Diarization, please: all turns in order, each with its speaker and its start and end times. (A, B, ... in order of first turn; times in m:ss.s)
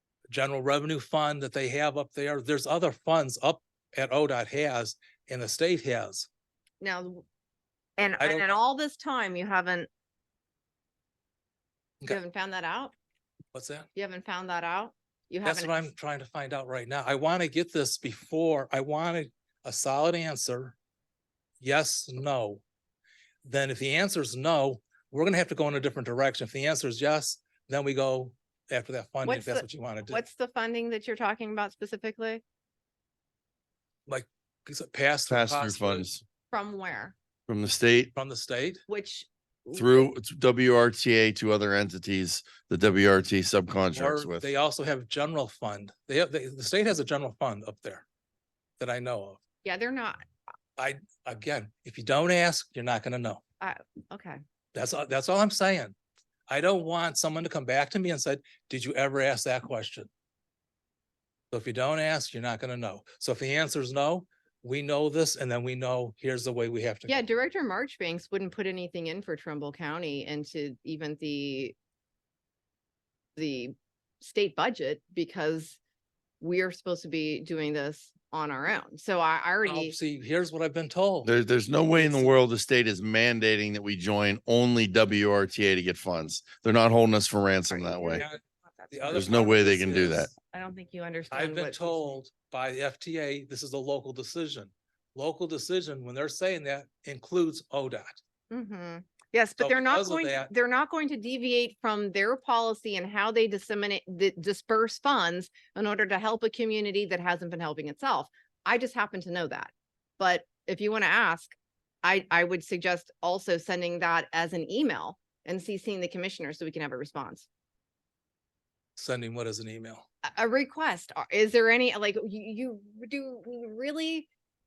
0:00.3-0:06.3 A
0:06.8-0:07.2 B
0:08.0-0:09.9 B
0:08.2-0:08.6 A
0:12.1-0:12.9 B
0:13.5-0:13.9 A
0:13.9-0:15.9 B
0:15.4-0:20.8 A
0:21.6-0:22.6 A
0:23.4-0:30.2 A
0:29.2-0:32.4 B
0:34.1-0:36.1 A
0:35.3-0:36.2 C
0:36.5-0:37.1 B
0:37.5-0:38.1 C
0:38.1-0:38.8 A
0:38.9-0:40.1 B
0:39.7-0:44.5 C
0:43.9-0:48.0 A
0:48.8-0:49.4 A
0:49.6-0:50.2 B
0:50.8-0:53.4 A
0:53.6-0:54.4 B
0:54.7-0:55.9 A
0:56.5-1:00.1 A
1:01.5-1:07.2 A
1:07.1-1:11.7 B
1:13.4-1:15.8 B
1:16.4-1:19.9 B
1:19.6-1:21.3 A
1:21.2-1:28.2 C
1:22.0-1:22.4 B
1:27.7-1:32.2 B
1:28.9-1:30.2 A
1:29.1-1:30.3 C
1:31.3-1:38.2 A
1:38.5-1:57.5 B
1:39.6-1:40.5 A
1:59.0-2:00.0 A
2:00.2-2:04.3 B